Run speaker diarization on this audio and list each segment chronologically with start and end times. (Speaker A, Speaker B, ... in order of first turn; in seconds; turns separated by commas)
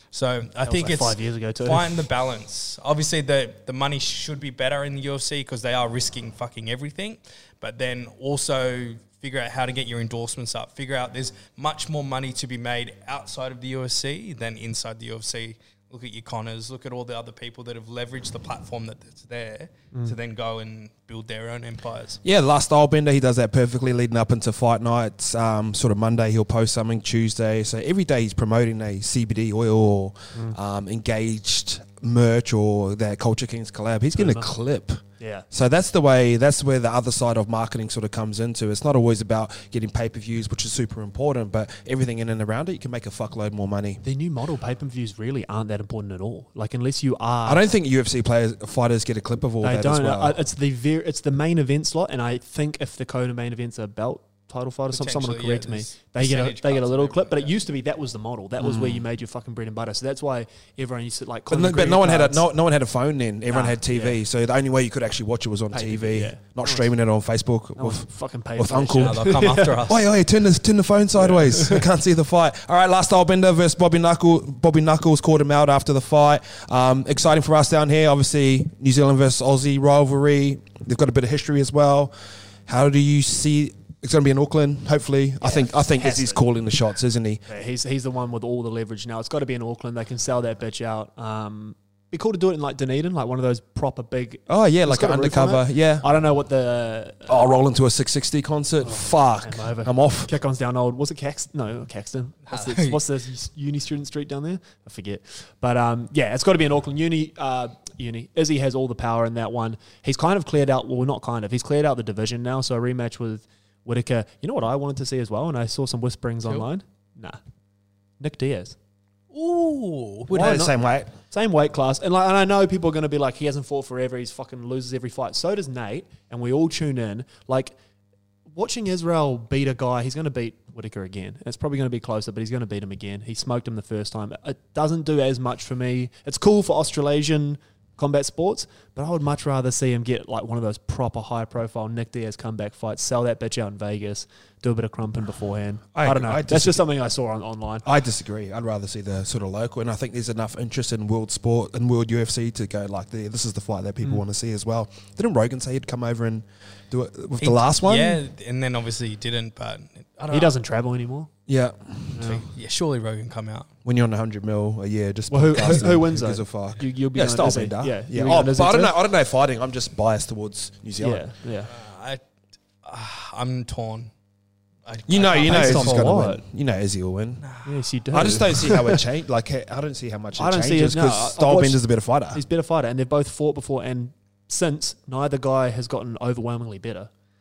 Speaker A: 0.1-22.2, Speaker B: 0.6-2.1, Speaker C: 22.2-35.0, Speaker B: 34.2-34.5, Speaker B: 35.2-35.5, Speaker C: 35.5-44.0, Speaker B: 44.0-47.7, Speaker C: 47.5-50.4, Speaker B: 49.6-62.5, Speaker A: 54.9-57.5, Speaker C: 58.6-59.0, Speaker C: 61.5-82.1, Speaker B: 63.5-64.2, Speaker B: 65.7-67.0, Speaker B: 67.8-69.8, Speaker A: 69.0-70.1, Speaker B: 71.2-71.8, Speaker C: 82.7-87.4, Speaker B: 85.4-86.5, Speaker B: 87.5-97.5, Speaker C: 94.5-96.0, Speaker C: 97.3-100.3, Speaker B: 98.8-117.4, Speaker A: 102.5-103.0, Speaker B: 118.2-118.8, Speaker A: 119.3-120.6, Speaker C: 120.3-121.1, Speaker B: 120.3-127.8, Speaker B: 128.5-147.9, Speaker C: 145.9-146.8, Speaker C: 147.8-158.2, Speaker A: 157.4-160.6, Speaker B: 160.3-161.3, Speaker C: 161.5-162.3, Speaker B: 162.2-162.4, Speaker A: 162.2-163.7, Speaker C: 163.8-171.2, Speaker B: 165.3-169.0, Speaker B: 171.0-171.7, Speaker A: 171.7-172.2, Speaker A: 172.8-174.1, Speaker A: 174.9-176.1, Speaker C: 175.1-177.4, Speaker B: 175.4-176.4, Speaker A: 177.4-177.8, Speaker B: 177.6-179.0, Speaker C: 178.1-182.4, Speaker B: 180.4-187.1